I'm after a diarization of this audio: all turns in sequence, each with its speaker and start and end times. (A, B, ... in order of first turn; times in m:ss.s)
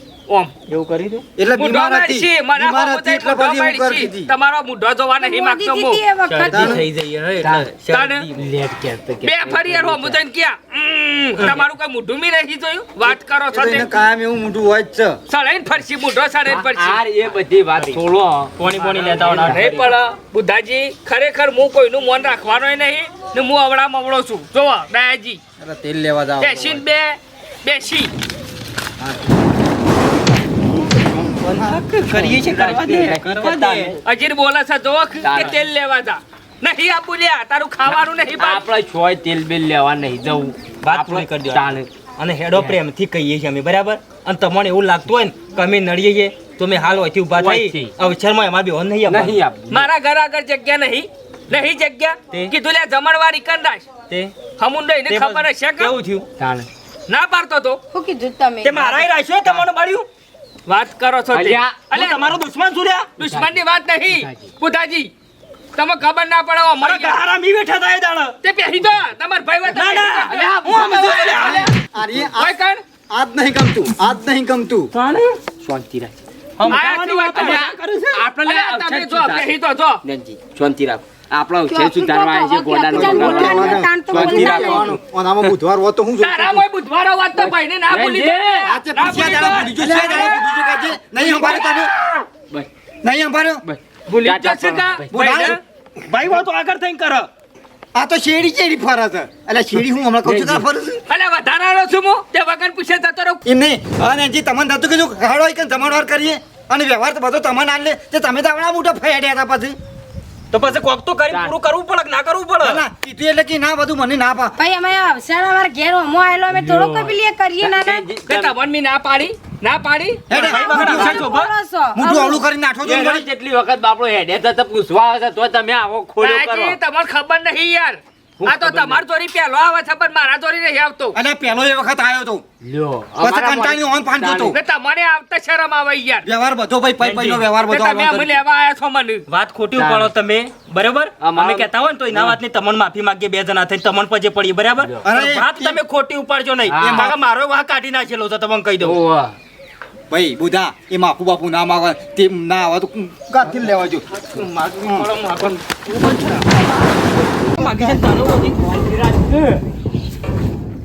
0:00.3-0:00.5 A
0:00.7-0:01.2 B
0:01.4-0:04.3 C
0:01.6-0:06.4 A
0:05.2-0:06.8 D
0:06.3-0:07.9 B
0:06.5-0:06.9 E
0:06.5-0:06.8 C
0:07.4-0:10.2 E
0:07.9-0:08.3 A
0:09.2-0:14.0 A
0:11.4-0:11.6 E
0:13.5-0:15.2 C
0:15.3-0:17.0 A
0:16.4-0:19.9 E
0:18.6-0:19.8 B
0:19.2-0:25.4 A
0:25.6-0:26.9 C
0:26.4-0:28.1 A
0:30.7-0:31.8 C
0:31.5-0:34.0 B
0:32.1-0:34.0 E
0:34.0-0:38.6 A
0:35.2-0:35.6 E
0:38.4-0:41.9 E
0:40.8-0:49.4 B
0:47.4-0:47.9 E
0:49.1-0:49.9 E
0:49.7-0:53.9 A
0:54.6-0:56.0 A
0:55.1-0:56.0 B
0:55.8-0:56.7 E
0:57.1-0:57.8 A
0:57.9-0:58.9 D
0:58.6-1:00.1 B
1:00.7-1:02.2 A
1:01.3-1:01.9 E
1:01.9-1:03.2 B
1:03.2-1:05.1 A
1:03.2-1:03.6 E
1:04.1-1:04.5 E
1:05.8-1:07.2 A
1:06.8-1:08.3 B
1:08.4-1:12.8 A
1:09.7-1:11.7 B
1:10.3-1:11.4 E
1:11.4-1:12.5 C
1:13.1-1:14.9 C
1:14.9-1:15.3 B
1:15.4-1:19.5 E
1:16.6-1:18.2 B
1:16.7-1:17.8 A
1:18.4-1:20.0 A
1:20.0-1:25.5 E
1:21.7-1:24.9 D
1:22.9-1:26.6 C
1:26.2-1:31.9 A
1:27.3-1:28.8 E
1:28.6-1:31.9 C
1:32.4-1:32.7 E
1:33.0-1:33.6 C
1:33.6-1:35.4 E
1:34.1-1:34.5 B
1:34.2-1:35.6 A
1:35.1-1:35.6 C
1:36.0-1:37.3 B
1:37.9-1:41.0 C
1:40.2-1:40.7 E
1:41.1-1:43.4 A
1:43.4-1:49.8 C
1:50.5-1:52.8 B
1:51.3-1:51.6 E
1:52.6-1:54.6 C
1:54.6-1:58.1 D
1:56.5-1:58.6 E
1:58.3-2:00.3 A
2:00.3-2:01.3 C
2:00.3-2:01.5 B
2:00.3-2:02.4 D
2:01.9-2:03.2 C
2:02.8-2:06.8 E
2:06.2-2:11.2 A
2:08.4-2:09.0 E
2:11.1-2:12.4 C
2:12.6-2:14.6 E
2:13.2-2:14.6 C
2:14.5-2:16.2 A
2:16.2-2:18.4 C
2:17.0-2:17.4 B
2:17.6-2:19.2 A
2:19.3-2:29.0 B
2:19.7-2:20.1 E
2:21.2-2:22.4 E
2:25.0-2:25.8 C
2:26.6-2:27.1 E
2:26.8-2:27.1 C
2:28.8-2:29.4 E
2:30.1-2:35.1 C
2:34.3-2:36.5 B
2:37.4-2:38.2 C
2:37.5-2:39.4 B